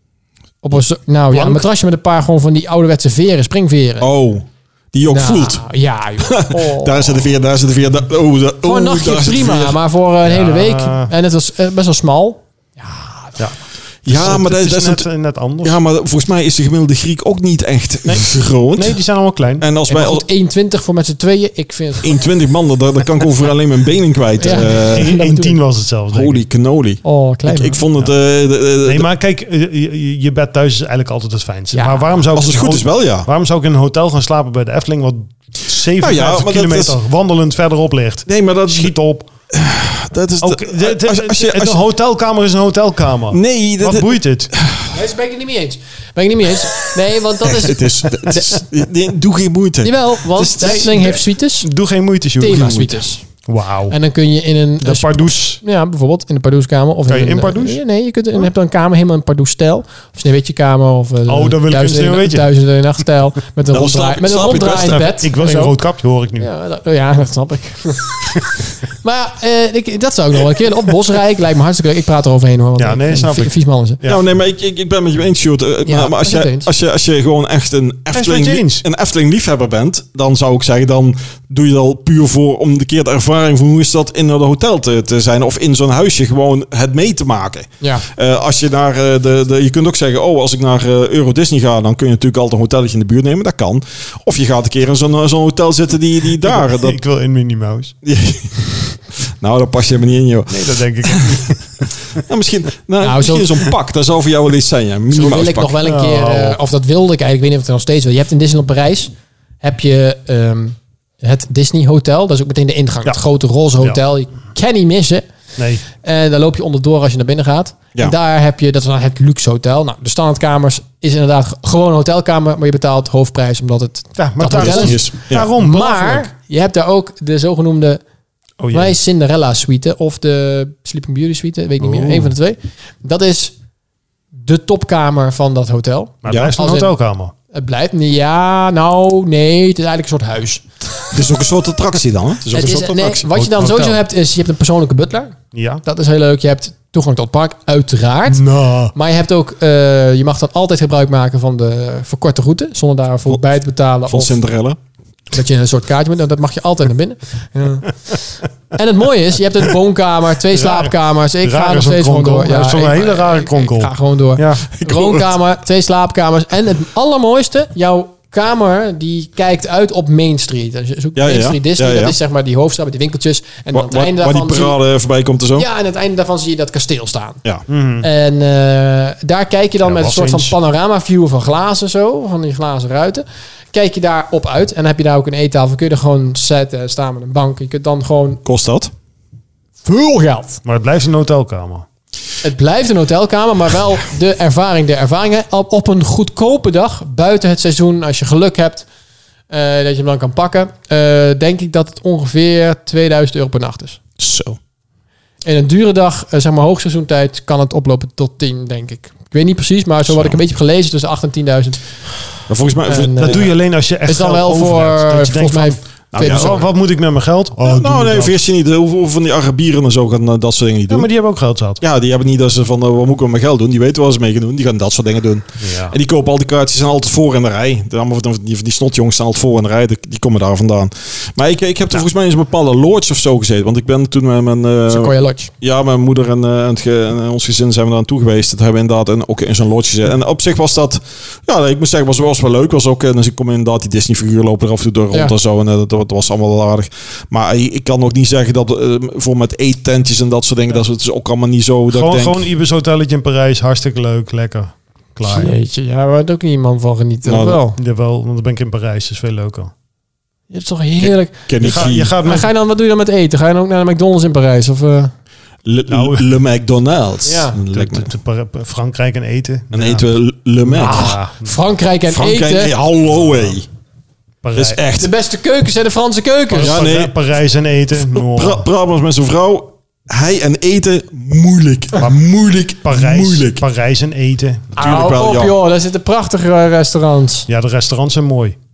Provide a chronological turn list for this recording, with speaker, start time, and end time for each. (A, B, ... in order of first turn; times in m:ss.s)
0:00.6-0:04.1 A
0:01.3-0:01.6 B
0:04.0-0:05.7 C
0:05.1-0:07.3 A
0:06.2-0:09.8 C
0:08.6-0:13.4 A
0:10.2-0:11.1 B
0:13.4-0:15.8 B
0:14.0-0:15.0 C
0:15.6-0:19.0 C
0:18.0-0:19.7 B
0:19.6-0:20.2 C
0:19.9-0:22.2 A
0:22.0-0:25.2 C
0:24.4-0:25.6 A
0:24.4-0:26.4 B
0:26.1-0:29.1 C
0:27.0-0:27.8 A
0:28.8-0:39.3 B
0:31.7-0:32.2 A
0:32.3-0:33.3 C
0:36.0-0:37.0 C
0:38.3-0:38.9 C
0:39.5-0:41.8 C
0:40.4-0:44.5 B
0:43.3-0:44.9 C
0:44.9-0:48.5 A
0:47.4-0:51.0 C
0:49.8-0:51.7 A
0:50.6-0:52.9 B
0:52.4-0:53.2 A
0:52.5-0:52.9 C
0:53.5-0:54.0 B
0:53.9-1:05.7 A
0:54.8-0:55.6 B
0:57.1-0:57.8 B
1:01.3-1:02.5 B
1:03.7-1:05.1 C
1:04.8-1:06.5 B
1:06.4-1:14.0 A
1:12.8-1:14.2 B
1:14.0-1:37.0 C
1:15.9-1:16.7 A
1:18.1-1:18.8 B
1:27.8-1:28.1 A
1:36.4-1:37.9 B
1:38.0-1:41.3 C
1:40.5-1:42.2 B
1:42.2-1:45.8 C
1:43.0-1:43.7 A
1:45.1-1:49.1 A
1:45.8-1:46.6 B
1:49.6-1:55.3 A
1:55.6-1:55.8 B
1:55.9-2:08.0 A
2:04.2-2:06.3 B
2:04.5-2:05.5 C
2:08.6-2:09.0 B
2:08.7-2:13.5 A
2:11.8-2:12.3 B
2:14.4-2:16.9 A
2:16.2-2:17.3 B
2:16.3-2:16.5 C
2:17.5-2:20.7 A
2:21.1-2:23.2 C
2:22.5-2:34.4 A
2:23.3-2:24.0 B
2:25.5-2:25.8 B
2:28.3-2:28.9 B
2:34.1-2:34.8 C
2:35.3-2:54.8 A
2:40.5-2:44.7 B
2:44.7-2:45.3 C
2:51.2-2:52.2 C
2:53.7-2:55.7 C
2:55.6-2:57.4 A
2:57.7-2:58.1 B
2:58.0-3:08.4 A
2:59.8-3:00.6 B
3:08.4-3:08.9 C
3:09.8-3:10.6 A
3:10.6-3:11.9 B
3:12.4-3:18.9 A
3:19.5-3:24.0 A
3:24.2-3:24.6 C
3:25.4-3:32.0 A
3:30.1-3:30.4 C
3:32.5-3:33.5 C
3:32.9-3:36.7 A
3:33.2-3:38.4 B
3:36.1-3:36.7 C
3:37.6-3:41.1 C
3:40.9-3:41.8 B
3:41.8-4:12.4 C
3:45.6-3:46.0 B
3:54.9-3:55.5 A
4:11.9-4:15.5 B
4:15.2-4:17.8 A
4:17.2-4:17.6 C
4:17.8-4:19.7 B
4:20.5-4:25.1 A
4:21.0-4:22.1 C
4:21.6-4:22.5 B
4:25.7-4:28.1 C
4:25.9-4:26.3 B
4:27.2-4:27.6 A
4:27.6-4:30.1 B
4:29.7-4:31.1 C
4:30.6-4:31.6 B
4:30.7-4:32.7 A
4:32.1-4:33.7 C
4:34.4-4:34.8 B
4:34.6-4:35.1 C
4:35.0-4:36.8 A
4:36.5-4:38.7 B
4:36.6-4:37.2 C
4:38.0-4:43.6 C
4:42.8-4:44.8 B
4:44.8-4:45.5 C
4:44.8-4:47.5 A
4:47.5-4:48.6 B